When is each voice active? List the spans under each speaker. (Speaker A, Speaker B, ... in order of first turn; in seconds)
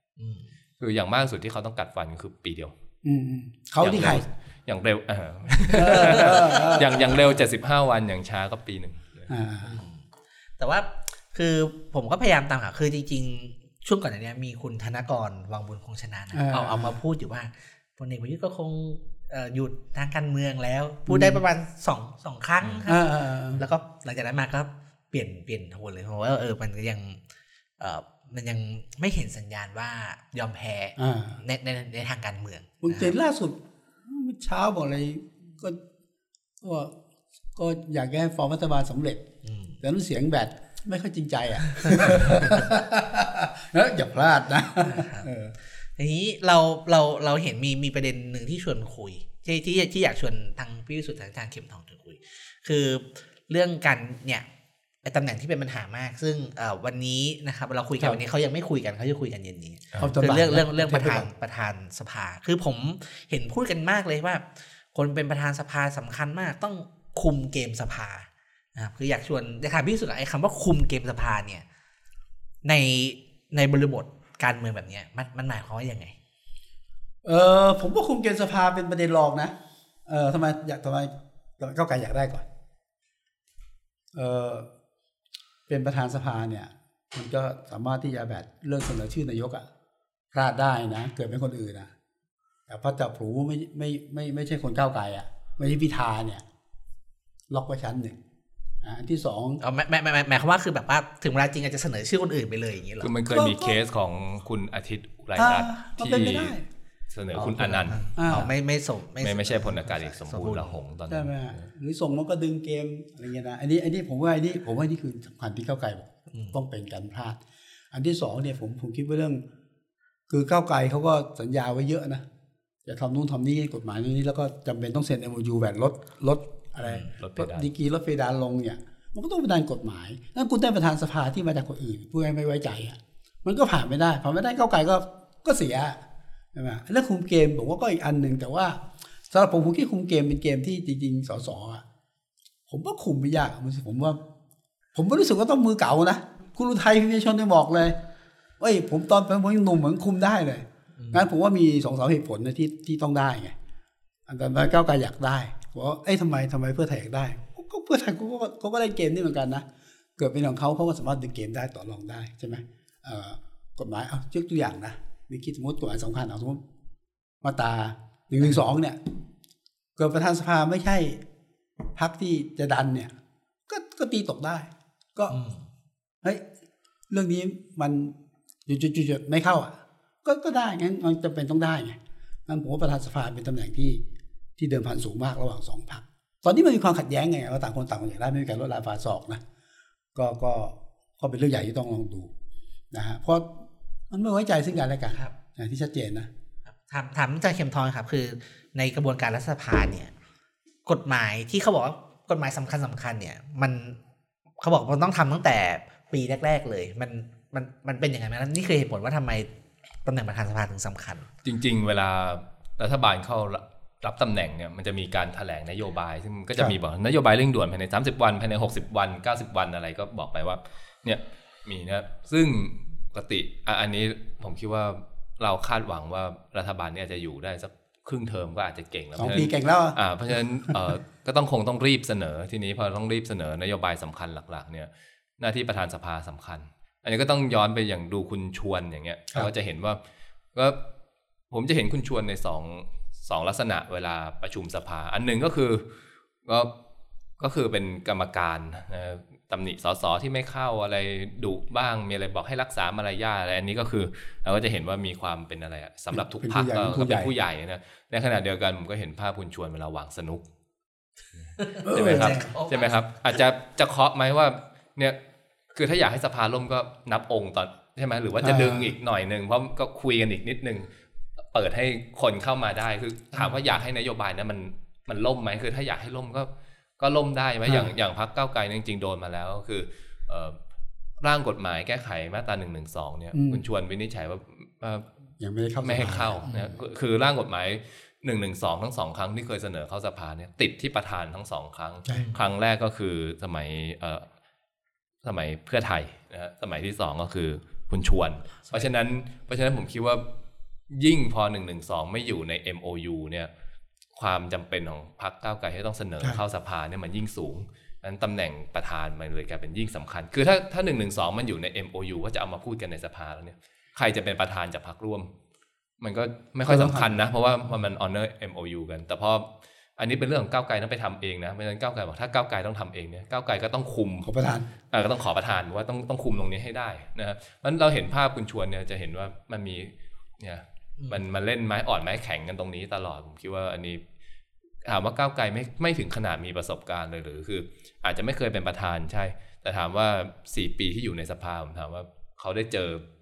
Speaker A: 0.2-0.5, 5.9-6.5, 9.7-10.1, 10.6-27.2, 27.8-33.1, 39.4-39.8, 41.7-42.7, 44.8-54.5, 55.0-71.6, 72.6-76.2, 99.6-103.1, 107.3-110.8, 116.3-116.6, 126.8-127.1, 151.0-151.3, 175.3-175.7, 196.8-200.1, 200.8-204.0, 204.6-209.5, 210.1-211.3, 261.6-263.0, 292.1-292.4
Speaker B: 0.8-2.7, 3.8-9.3, 103.0-106.6, 107.1-108.5, 109.2-111.6, 127.1-127.7, 211.4-240.0, 240.5-240.8, 241.5-245.9, 246.4-246.7, 247.4-260.5, 261.4-265.2, 265.7-270.9, 271.5-280.6, 281.2-285.1, 285.8-294.3, 295.2-300.2, 300.9-303.5, 304.1-315.3, 316.0-324.3, 324.9-334.0, 334.8-343.1
Speaker C: 3.0-4.2, 5.7-7.3, 9.3-9.8, 16.3-17.0, 21.1-21.4, 22.9-23.6, 31.0-31.4, 32.8-35.8, 36.6-37.0, 37.5-39.2, 39.8-45.6, 60.0-61.3, 77.2-79.5, 80.1-82.5, 84.1-84.7, 85.7-89.6, 90.3-91.9, 92.7-96.4, 97.5-98.2, 98.8-99.6, 103.3-103.8, 105.4-106.6, 108.2-108.5, 111.1-117.4, 117.9-119.4, 120.3-122.2, 122.8-136.0, 136.5-141.8, 142.7-144.2, 144.9-148.0, 148.6-153.6, 154.3-166.6, 167.4-169.0, 170.0-171.2, 171.9-173.1, 173.7-175.4, 177.1-178.2, 178.7-184.0, 184.6-189.4, 190.1-192.3, 192.9-196.3, 229.2-230.0, 230.7-230.9, 256.1-257.3, 261.9-262.5, 268.4-268.9, 277.6-277.9, 283.3-283.6, 285.4-286.8, 316.6-317.2, 324.2-324.7